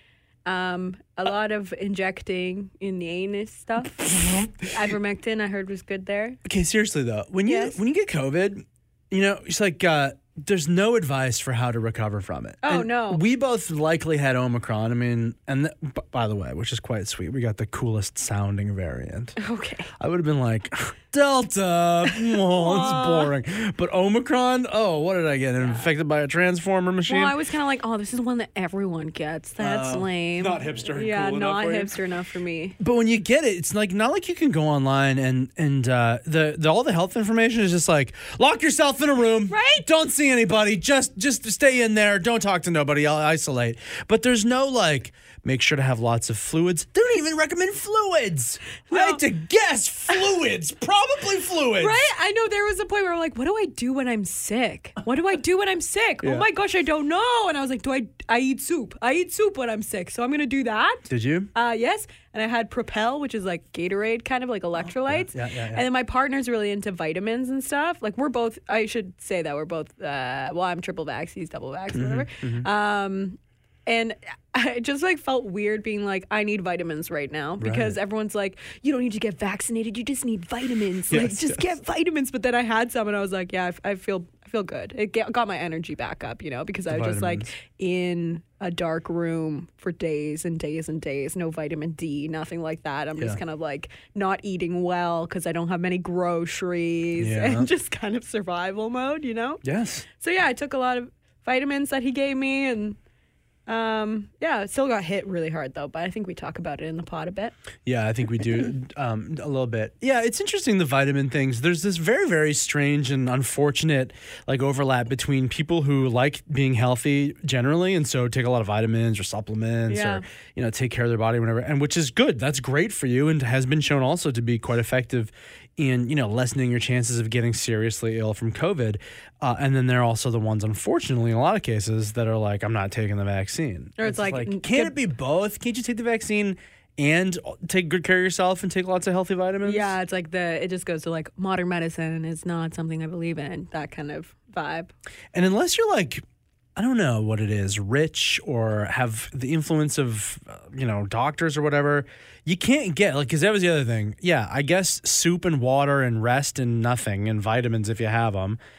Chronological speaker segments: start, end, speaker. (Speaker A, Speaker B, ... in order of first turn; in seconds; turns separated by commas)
Speaker A: 0.5-6.4, Speaker B: 4.2-4.5, Speaker B: 6.5-19.4, Speaker A: 7.5-7.8, Speaker A: 12.6-13.2, Speaker A: 19.4-19.9, Speaker B: 20.0-27.4, Speaker A: 22.3-23.3, Speaker A: 25.6-25.9, Speaker A: 27.1-32.8, Speaker B: 29.6-32.0, Speaker B: 32.8-52.0, Speaker A: 39.5-39.8, Speaker A: 48.9-49.2, Speaker A: 51.8-61.0, Speaker B: 61.1-61.5, Speaker A: 61.5-99.6, Speaker B: 64.8-65.9, Speaker B: 71.9-72.7, Speaker B: 77.6-78.0, Speaker B: 81.1-81.6, Speaker B: 86.9-87.5, Speaker B: 97.2-97.7, Speaker B: 99.6-100.0, Speaker A: 100.2-103.0, Speaker A: 103.7-107.5, Speaker B: 107.9-139.9, Speaker A: 119.9-120.2, Speaker A: 134.0-134.9, Speaker A: 139.6-144.9, Speaker B: 145.3-146.2, Speaker B: 146.8-158.6